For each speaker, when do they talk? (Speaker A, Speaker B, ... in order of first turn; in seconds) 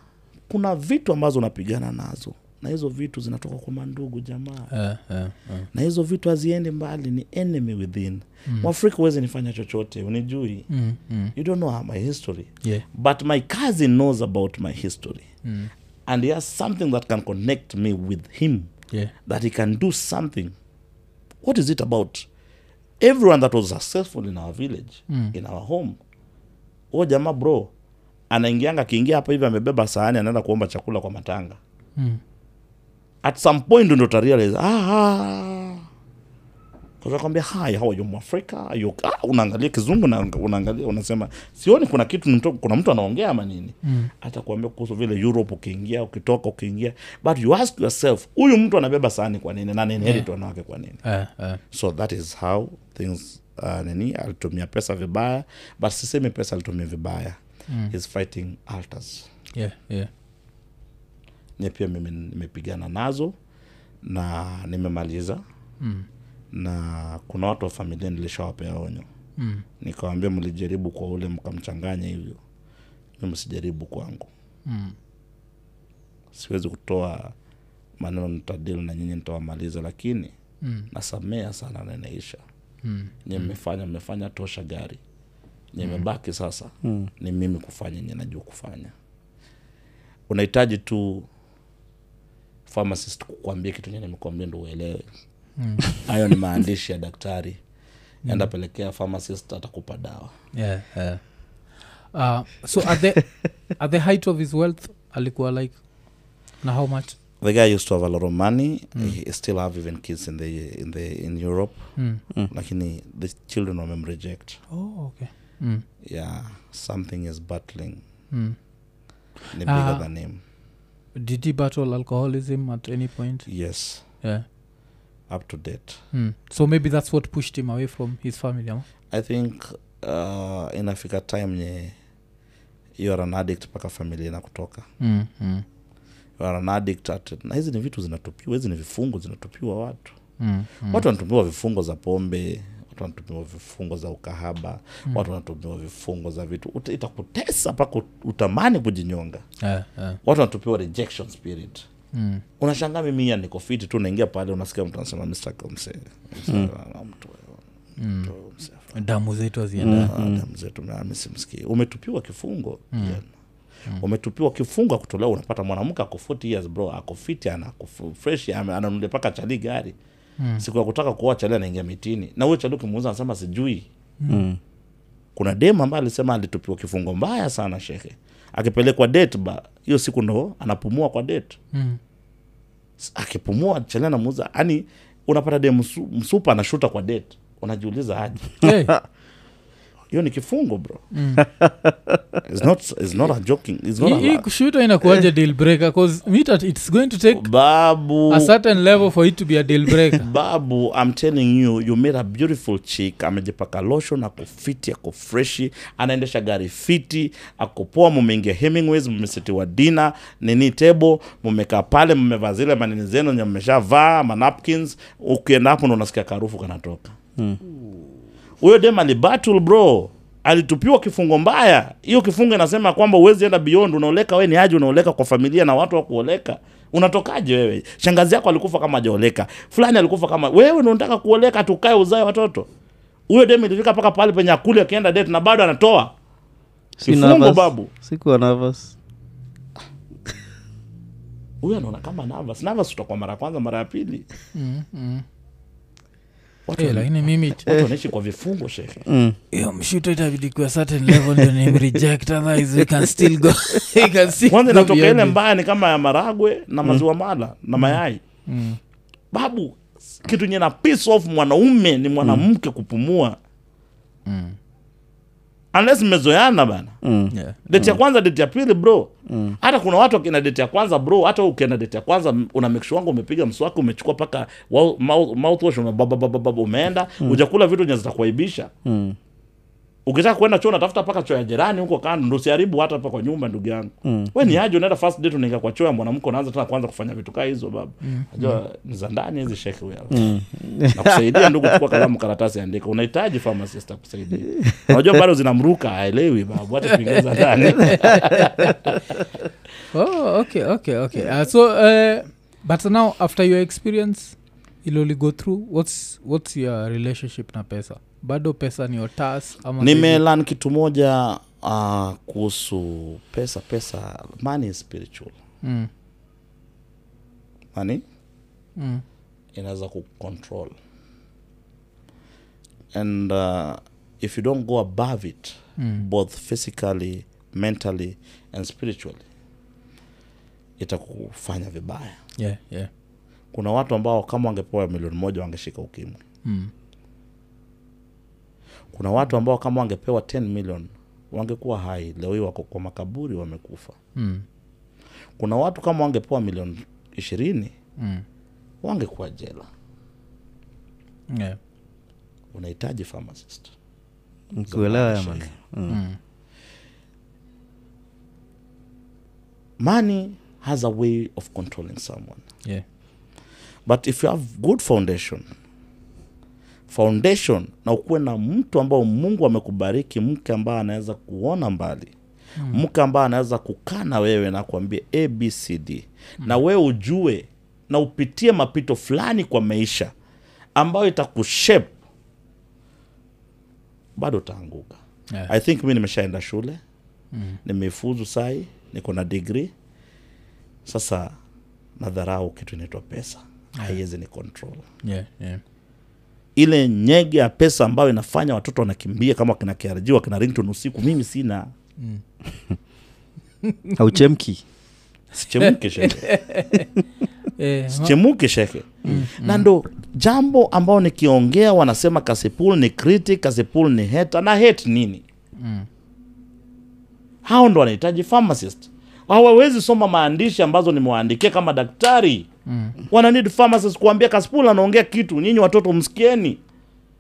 Speaker A: 0.5-4.7, 5.7-10.7, 11.4-15.3, 16.1-18.7, 19.3-20.5, 21.4-22.3, 23.0-26.0, 26.9-27.7, 28.3-31.6, 33.2-35.9, 37.0-51.0, 51.7-57.4, 57.9-59.3, 61.6-63.3, 64.0-65.4, 66.5-69.1, 69.8-72.4, 73.2-74.3, 76.3-77.3, 78.0-80.3, 80.9-82.4, 83.3-85.0, 85.7-88.9, 90.3-91.3, 92.7-95.0, 96.0-97.6, 98.3-100.3, 107.4-111.9, 112.5-114.6, 116.0-118.0, 119.5-120.4, 123.5-124.0, 125.3-126.0, 129.1-131.9, 133.0-134.8, 136.4-140.2, 140.9-149.4, 150.2-151.8, 152.6-157.6, 158.2-158.9, 159.9-163.3, 164.0-169.9, 170.6-173.9, 175.4-181.6, 183.0-188.6, 190.1-191.0, 192.4-194.5, 197.3-198.5, 200.2-217.1, 218.6-232.7, 233.3-236.1, 237.1-237.9, 241.6-244.3, 246.7-249.0, 254.5-258.2, 259.3-263.4, 265.7-267.0, 267.7-278.7, 280.1-290.4, 290.9-299.0, 309.8-315.4, 317.7-318.0, 319.6-320.8, 322.9-329.2, 330.8-332.2, 333.5-336.2, 338.9-343.9, 345.4-347.7, 348.8-349.7, 352.5-353.7, 354.7-355.5, 359.8-362.4, 363.9-365.5, 366.9-372.1, 372.7-380.1, 380.8-381.9, 384.2-386.8, 387.6-389.7, 390.9-391.4, 392.0-394.8, 396.6-401.7, 405.3-406.3, 407.9-415.2, 417.4-422.5, 423.1-426.6
Speaker B: 4.7-5.7, 10.7-11.3, 15.4-15.7, 25.1-25.4, 43.8-44.1, 51.0-51.6, 57.7-57.9, 59.5-60.1, 65.8-66.1, 69.4-69.7, 74.7-75.0, 80.6-80.9, 82.8-83.5, 95.6-95.9, 100.5-101.2, 102.1-105.8, 106.6-107.2, 112.0-112.2, 114.7-115.8, 118.3-118.6, 119.6-120.1, 121.2-123.5, 126.1-128.8, 135.0-135.7, 140.4-141.1, 149.6-150.2, 152.1-152.4, 158.0-158.3, 158.9-160.1, 162.9-163.2, 170.4-170.6, 174.2-174.4, 181.7-182.0, 188.6-189.0, 191.1-191.5, 194.0-197.5, 198.3-200.2, 244.5-245.2, 246.8-247.6, 249.5-255.4, 257.8-258.8, 264.3-264.6, 267.3-267.6, 288.0-288.6, 297.2-298.7, 299.9-310.2, 315.6-315.9, 318.8-319.0, 325.8-326.0, 332.4-332.9, 336.4-336.7, 344.2-344.4, 348.0-348.2, 351.3-351.6, 355.9-356.2, 387.3-387.6, 395.0-395.6, 403.6-403.9, 405.6-406.9, 407.6-408.2, 409.1-409.7, 415.6-415.9, 422.7-423.0
Speaker C: 86.8-87.1, 159.8-160.4, 174.3-174.6, 188.6-188.9, 191.4-192.2, 237.0-239.0, 249.1-249.4, 251.2-251.5, 252.8-253.8, 267.0-268.0, 269.3-269.6, 278.9-279.2, 284.1-284.3, 290.1-291.9, 294.6-295.0, 354.5-356.0, 404.0-404.6